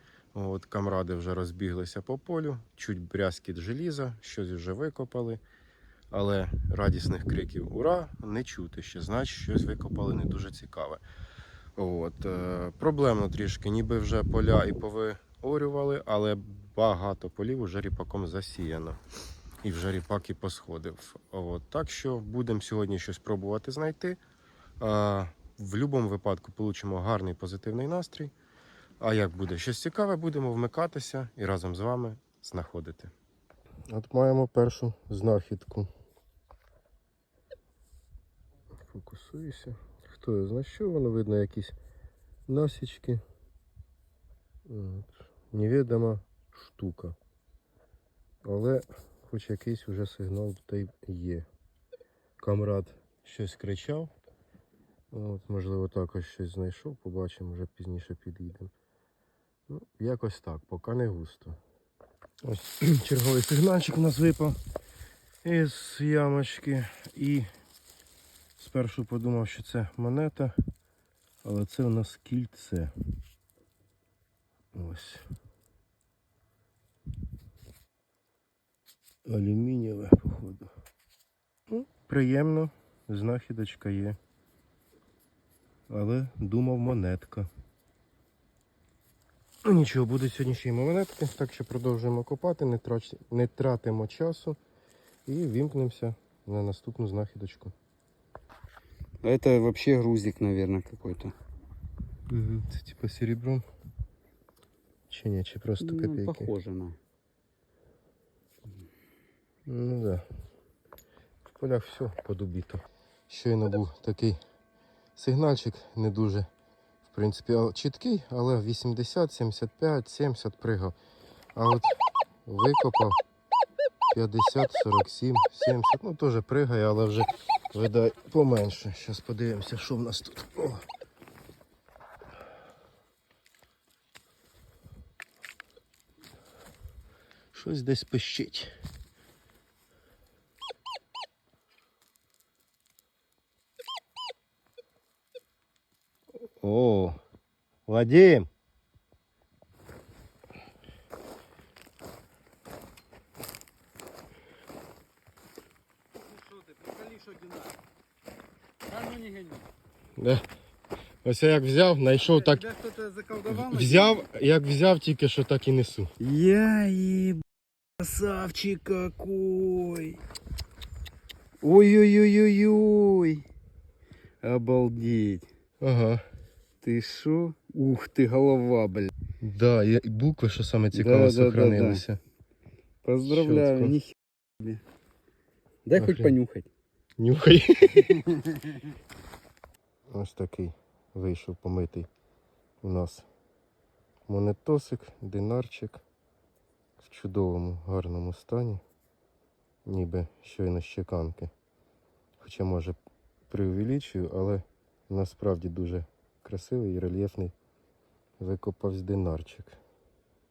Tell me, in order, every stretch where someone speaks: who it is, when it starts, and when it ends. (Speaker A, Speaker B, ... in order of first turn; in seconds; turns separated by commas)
Speaker A: 0.3-5.4, Speaker A: 6.1-11.0, Speaker A: 11.8-19.0, Speaker A: 19.6-24.2, Speaker A: 24.8-28.3, Speaker A: 29.0-33.1, Speaker A: 33.9-35.9, Speaker A: 38.8-41.7, Speaker A: 42.5-43.2, Speaker A: 44.7-47.2, Speaker A: 48.5-51.5, Speaker A: 52.4-54.1, Speaker A: 55.1-58.7, Speaker A: 59.7-61.6, Speaker A: 62.4-64.6, Speaker A: 65.4-67.5, Speaker A: 68.6-70.5, Speaker A: 71.4-72.9, Speaker A: 74.7-75.2, Speaker A: 79.2-80.7, Speaker A: 81.7-84.2, Speaker A: 85.9-87.5, Speaker A: 89.6-94.6, Speaker A: 95.2-97.7, Speaker B: 99.2-101.3, Speaker A: 102.3-103.6, Speaker A: 105.1-106.5, Speaker B: 105.8-107.0, Speaker A: 109.7-110.2, Speaker A: 111.6-114.4, Speaker A: 115.2-116.5, Speaker A: 117.1-121.0, Speaker A: 121.5-123.2, Speaker A: 124.1-130.8, Speaker A: 137.5-138.7, Speaker A: 146.6-147.2, Speaker A: 147.8-148.5, Speaker B: 156.3-157.8, Speaker B: 158.8-159.7, Speaker A: 160.2-160.4, Speaker A: 161.2-162.7, Speaker B: 162.3-164.2, Speaker A: 163.5-166.1, Speaker B: 166.2-167.4, Speaker B: 168.0-170.2, Speaker B: 171.6-173.4, Speaker B: 174.4-175.5, Speaker A: 175.8-176.2, Speaker B: 176.8-179.1, Speaker A: 179.4-182.2, Speaker B: 180.9-182.0, Speaker B: 183.0-184.8, Speaker A: 183.2-184.0, Speaker B: 185.8-186.7, Speaker A: 185.9-186.3, Speaker A: 187.2-188.2, Speaker A: 190.1-192.1, Speaker A: 192.8-193.3, Speaker A: 194.3-196.0, Speaker A: 197.0-198.8, Speaker A: 199.8-201.5, Speaker A: 202.4-202.9, Speaker A: 203.5-207.5, Speaker A: 208.4-209.8